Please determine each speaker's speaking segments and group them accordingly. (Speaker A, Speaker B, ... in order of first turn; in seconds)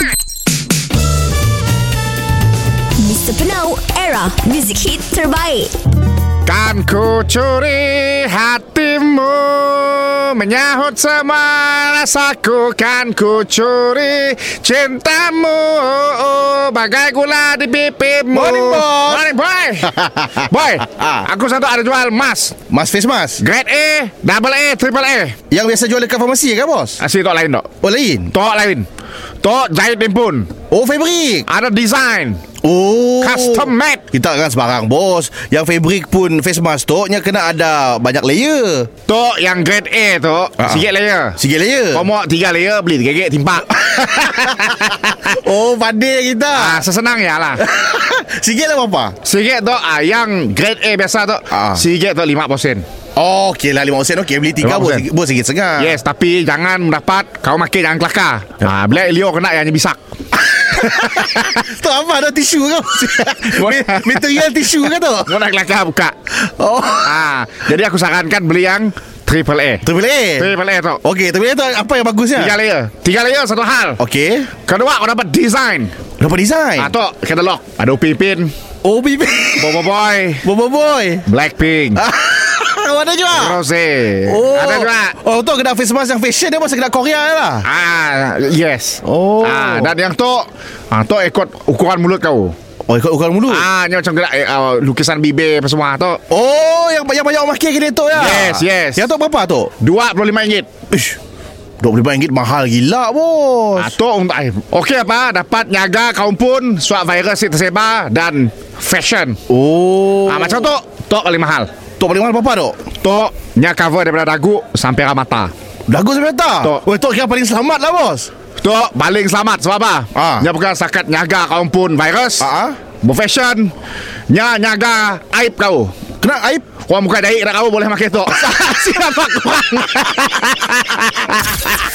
Speaker A: 3.0-5.7
Speaker B: 6.5-22.6, 23.4-25.4, 27.0-27.7, 28.3-28.9, 29.4-30.5, 31.5-32.4, 33.2-34.1, 39.1-41.4, 41.9-45.2, 46.5-47.6, 49.2-52.9, 54.6-55.0, 55.8-60.0, 60.6-61.6, 63.2-64.6, 65.2-66.2, 67.0-69.8, 70.4-71.0, 72.4-74.0, 74.7-76.0, 76.8-78.5, 79.6-80.5, 81.3-82.0, 83.3-85.2, 87.6-92.5, 93.5-96.2, 98.1-99.1, 99.8-100.7, 103.8-109.4, 110.2-111.7, 113.0-115.5, 118.6-122.5, 123.0-123.7, 124.3-125.9, 126.8-131.7
Speaker C: 18.3-19.2, 22.7-23.4, 25.5-27.0, 27.8-28.3, 30.7-31.5, 32.6-38.9, 40.6-40.9, 41.4-42.1, 44.5-46.8, 47.6-49.2, 51.5-51.8, 53.2-56.0, 60.7-65.4, 66.4-67.2, 69.8-72.6, 74.0-74.5, 76.2-77.0, 78.8-79.9, 80.4-81.2, 82.0-83.6, 84.3-87.7, 89.0-89.9, 92.9-93.7, 96.3-99.7, 100.9-101.2, 101.8-104.0, 109.5-110.7, 112.0-112.8, 115.9-118.3, 120.1-120.5, 122.4-122.8, 126.2-126.7, 128.4-129.3